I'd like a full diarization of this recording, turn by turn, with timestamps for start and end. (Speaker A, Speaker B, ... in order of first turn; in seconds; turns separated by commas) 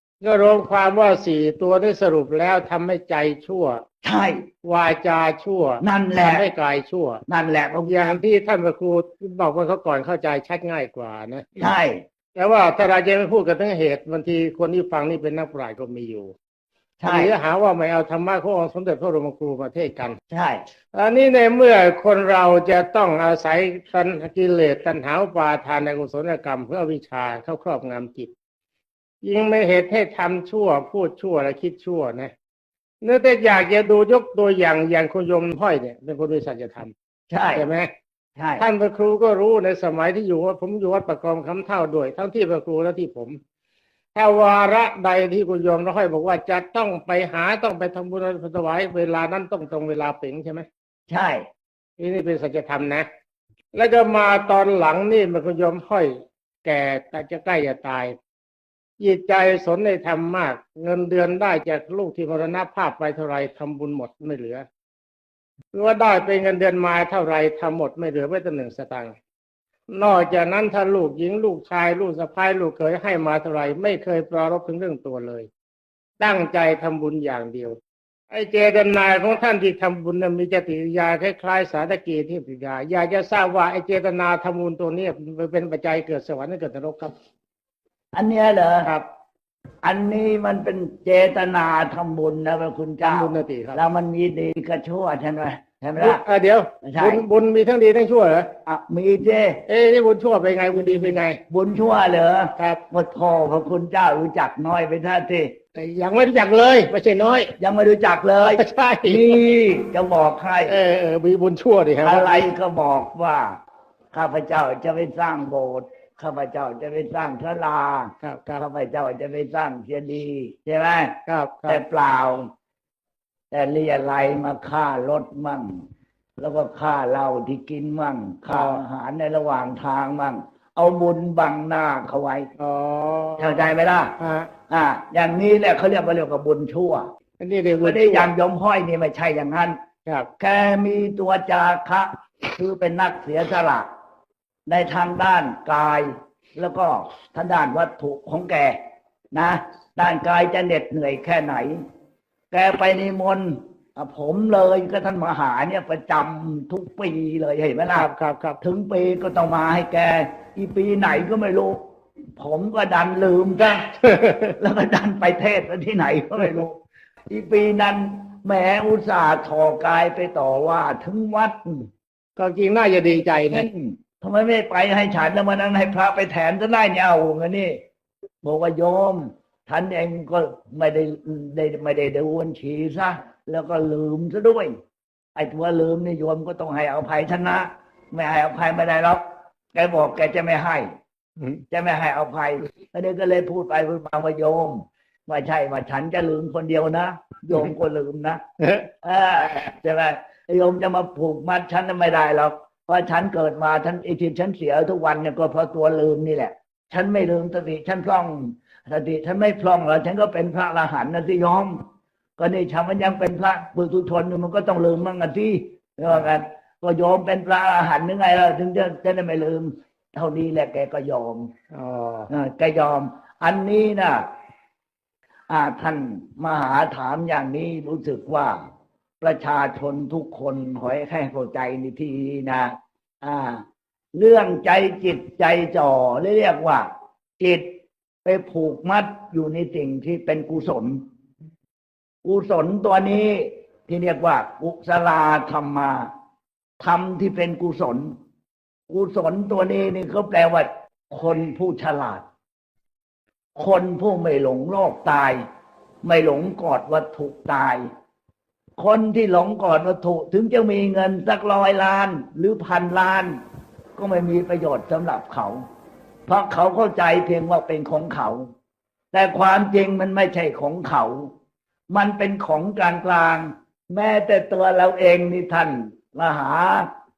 Speaker A: 0.2-3.8, Speaker B: 4.0-4.5, Speaker A: 4.6-7.2, Speaker B: 5.8-6.5, Speaker B: 7.3-8.2, Speaker A: 7.9-11.6, Speaker B: 11.6-12.0, Speaker A: 12.4-16.3, Speaker B: 17.0-17.3, Speaker A: 17.0-20.2, Speaker B: 20.3-20.6, Speaker A: 20.9-28.3, Speaker A: 29.2-32.3, Speaker A: 33.0-36.9, Speaker B: 37.3-37.7, Speaker A: 37.5-37.9, Speaker B: 38.4-38.6, Speaker A: 38.6-43.4, Speaker A: 44.1-50.7, Speaker B: 51.1-51.5, Speaker A: 52.0-53.1, Speaker A: 53.7-58.1, Speaker A: 59.0-64.7, Speaker A: 65.7-69.2, Speaker A: 69.9-75.5, Speaker A: 76.2-77.8, Speaker A: 78.3-87.2, Speaker B: 88.1-88.9, Speaker B: 89.8-96.2, Speaker A: 93.0-93.8, Speaker A: 96.0-98.5, Speaker B: 96.8-97.3, Speaker B: 98.7-99.6, Speaker A: 99.7-101.4, Speaker B: 101.5-105.6, Speaker A: 105.8-107.5, Speaker B: 107.6-110.8, Speaker A: 108.5-109.4, Speaker A: 110.7-112.5, Speaker B: 112.0-113.6, Speaker B: 114.1-122.5, Speaker A: 118.2-118.6, Speaker A: 121.3-121.8, Speaker B: 123.5-125.8, Speaker B: 126.4-132.5, Speaker A: 128.5-128.8, Speaker A: 132.6-133.7, Speaker B: 133.4-134.1, Speaker A: 134.2-134.5, Speaker B: 134.7-137.1, Speaker A: 137.4-138.3, Speaker B: 137.8-139.8, Speaker B: 140.4-143.9, Speaker B: 144.7-148.8, Speaker B: 149.3-151.8, Speaker B: 152.5-158.1, Speaker A: 157.9-158.6, Speaker B: 158.6-161.8, Speaker B: 162.4-163.9, Speaker A: 164.0-164.6, Speaker B: 164.6-171.9, Speaker A: 172.4-173.7, Speaker B: 173.5-177.8, Speaker B: 178.4-184.8, Speaker B: 185.4-190.9, Speaker B: 191.7-198.4, Speaker A: 198.6-198.9, Speaker B: 199.0-211.8, Speaker B: 212.4-221.5, Speaker A: 221.7-222.3, Speaker B: 222.3-224.3, Speaker B: 225.5-228.6, Speaker B: 229.2-233.6, Speaker B: 234.2-241.0, Speaker B: 242.2-246.1, Speaker B: 246.8-248.1, Speaker B: 248.9-252.2, Speaker B: 253.6-255.4, Speaker B: 256.0-257.9, Speaker B: 258.8-263.4, Speaker B: 264.0-265.6, Speaker B: 266.3-268.5, Speaker B: 269.1-271.3, Speaker B: 271.9-276.9